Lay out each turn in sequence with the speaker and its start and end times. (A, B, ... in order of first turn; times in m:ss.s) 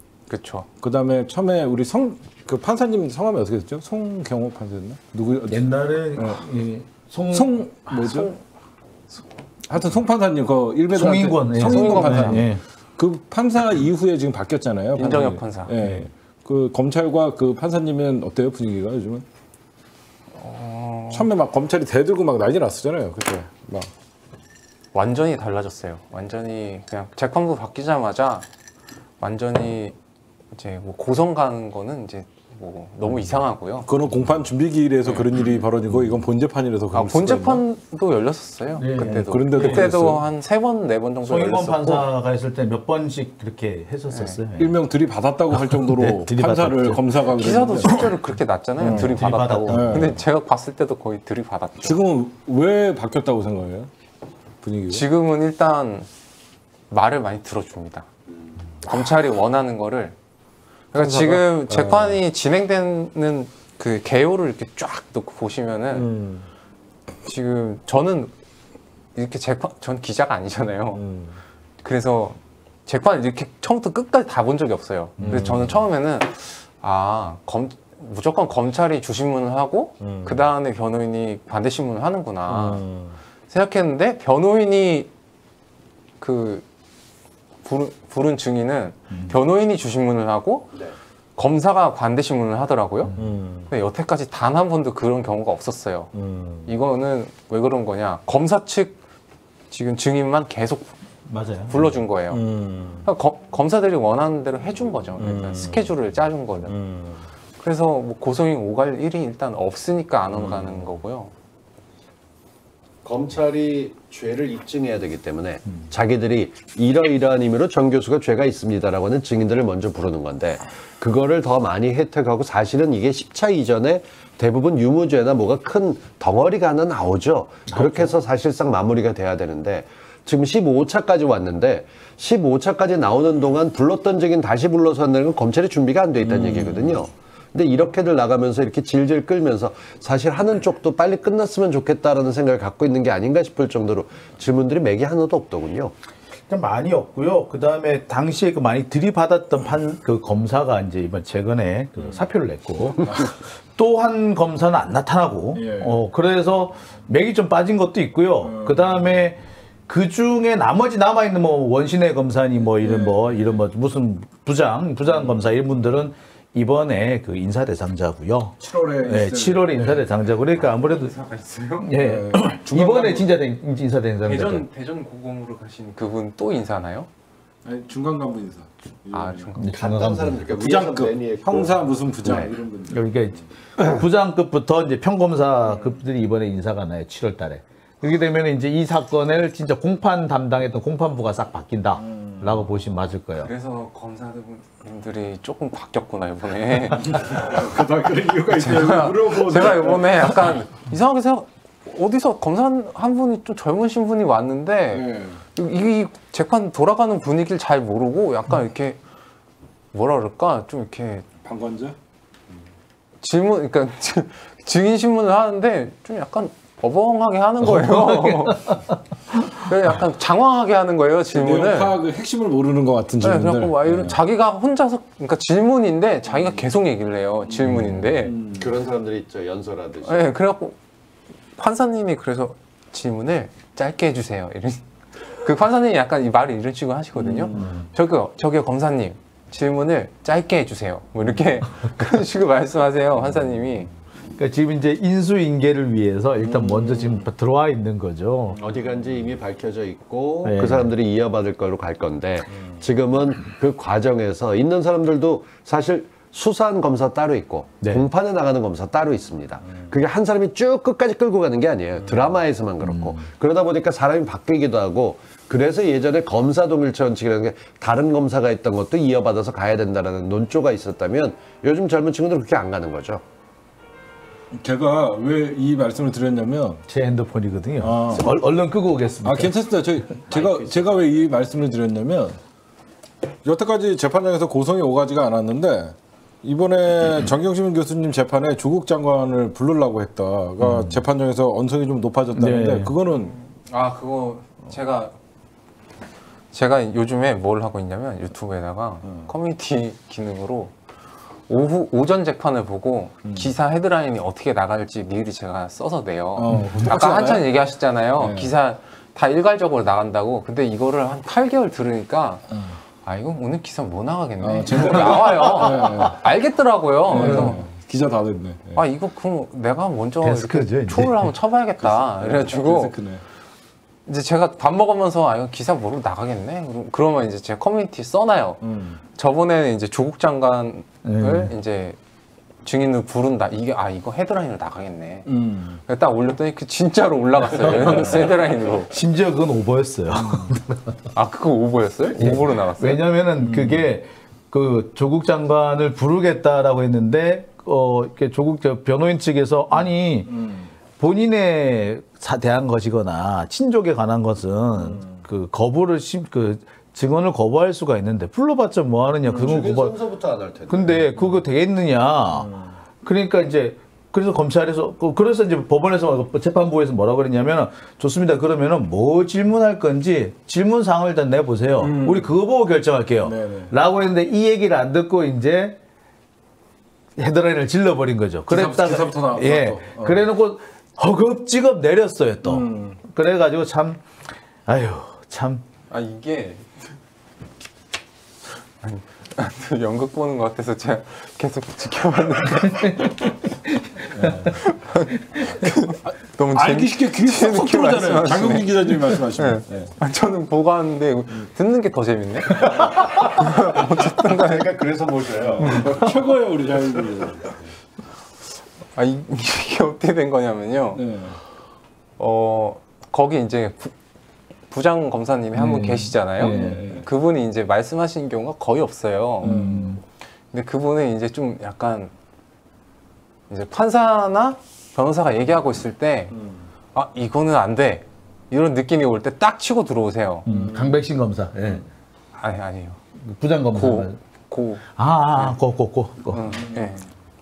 0:00.3-0:00.7 A
0:00.8-0:06.4 B
0:05.5-0:07.6 C
0:07.3-0:08.3 B
0:07.9-0:08.4 A
0:09.7-0:19.2 B
0:10.9-0:12.6 C
0:11.6-0:12.5 A
0:15.0-0:15.7 A
0:20.4-0:21.3 A
0:21.1-0:23.9 B
0:24.9-0:28.5 A
0:29.2-0:30.0 A
0:30.5-0:33.9 A
0:33.8-0:37.6 B
0:36.9-0:42.1 A
0:38.8-0:39.9 C
0:39.3-0:40.2 B
0:41.2-0:44.8 C
0:44.1-0:44.4 A
0:44.6-0:48.2 B
0:45.5-0:47.0 C
0:47.4-0:52.0 A
0:48.8-0:50.2 B
0:48.8-0:50.2 C
0:51.8-0:53.9 B
0:54.6-0:55.0 B
0:54.9-0:56.1 A
0:56.9-0:58.1 A
0:58.8-1:00.2 A
1:00.9-1:06.1 A
1:01.0-1:02.2 B
1:05.9-1:06.5 B
1:07.3-1:08.3 A
1:09.2-1:11.0 A
1:11.0-1:11.4 B
1:11.8-1:22.8 A
1:15.2-1:15.6 C
1:15.2-1:15.8 B
1:20.0-1:20.4 B
1:22.5-1:23.2 B
1:23.5-1:25.1 A
1:26.2-1:26.6 A
1:27.6-1:30.8 A
1:31.4-1:33.1 A
1:33.1-1:33.3 C
1:33.2-1:33.7 B
1:33.7-1:36.1 A
1:36.1-1:36.7 B
1:36.7-1:39.0 A
1:39.7-1:40.9 A
1:41.3-1:41.9 C
1:41.7-1:42.4 A
1:42.3-1:43.1 B
1:43.0-1:46.8 A
1:45.2-1:45.9 B
1:46.7-1:47.2 B
1:47.6-1:51.3 A
1:50.3-1:50.8 B
1:53.0-2:25.9 D
2:07.7-2:08.1 C
2:16.3-2:16.9 B
2:26.5-2:51.1 C
2:33.1-2:33.3 B
2:35.5-2:36.0 B
2:38.4-2:39.0 B
2:42.8-2:43.6 B
2:45.1-2:45.3 B
2:48.6-2:50.1 B
2:50.5-2:51.9 A
2:51.8-2:54.6 C
2:52.0-2:53.4 B
2:54.2-2:57.1 A
2:57.6-2:59.5 B
2:59.1-2:59.8 A
2:59.6-3:00.5 C
2:59.7-3:02.5 D
3:00.5-3:03.0 B
3:02.9-3:13.5 C
3:12.0-3:12.6 B
3:13.4-3:17.6 A
3:17.2-3:20.5 B
3:18.5-3:29.0 A
3:24.9-3:25.4 B
3:29.9-3:31.3 A
3:31.4-3:32.0 B
3:33.2-3:38.8 A
3:37.6-3:38.6 C
3:39.4-3:42.0 A
3:41.3-3:44.2 B
3:43.2-3:48.4 A
3:47.7-3:48.7 B
3:48.5-3:50.2 D
3:50.0-3:50.8 A
3:51.6-4:03.9 A
3:57.2-3:57.8 B
4:04.4-4:08.6 C
4:06.4-4:07.2 B
4:08.6-4:33.2 D
4:10.4-4:10.9 C
4:22.8-4:23.2 C
4:34.5-4:36.8 B
4:36.9-4:39.6 C
4:37.8-4:38.3 B
4:39.2-4:42.4 B
4:43.4-4:53.3 B
4:50.6-4:51.0 C
4:52.4-4:53.0 C
4:53.1-4:55.2 A
4:56.5-5:00.7 A
5:01.5-5:12.4 A
5:03.2-5:03.5 B
5:06.4-5:07.5 B
5:06.5-5:06.8 C
5:08.2-5:08.5 B
5:13.0-5:17.6 A
5:14.4-5:16.2 B
5:17.1-5:18.8 B
5:17.2-5:17.6 C
5:18.8-5:23.0 A
5:20.2-5:21.3 C
5:21.8-5:23.2 B
5:24.1-5:32.0 A
5:28.6-5:29.0 B
5:31.0-5:31.5 C
5:32.6-5:35.3 A
5:35.3-5:35.8 B
5:35.8-5:38.9 A
5:37.6-5:38.3 B
5:38.9-5:41.0 C
5:41.1-5:43.0 A
5:42.1-5:50.4 C
5:43.4-5:43.9 B
5:50.3-5:50.7 B
5:51.0-6:00.0 C
5:59.3-6:01.1 D
6:00.7-6:02.5 C
6:03.0-6:15.8 C
6:11.8-6:12.4 B
6:13.2-6:13.7 B
6:17.2-6:24.0 C
6:18.5-6:20.3 B
6:22.4-6:23.0 B
6:24.7-6:25.6 C
6:25.9-6:26.9 A
6:28.8-6:33.4 A
6:32.7-6:33.1 C
6:34.0-6:34.4 C
6:34.1-6:34.5 B
6:34.4-6:44.7 A
6:36.0-6:39.9 B
6:42.8-6:46.0 D
6:45.6-6:45.9 A
6:45.6-6:47.6 B
6:49.0-6:51.0 A
6:50.9-6:51.4 B
6:52.2-6:53.9 A
6:54.7-6:59.6 A
6:55.6-6:56.8 C
6:56.4-6:57.1 B
6:59.4-7:00.0 C
6:59.4-6:59.9 B
7:00.5-7:02.1 A
7:03.5-7:06.4 A
7:06.9-7:10.4 A
7:10.4-7:11.8 C
7:10.5-7:10.9 B
7:12.4-7:13.0 A
7:13.3-7:14.2 C
7:13.7-7:14.8 A
7:15.0-7:16.6 C
7:16.3-7:17.0 A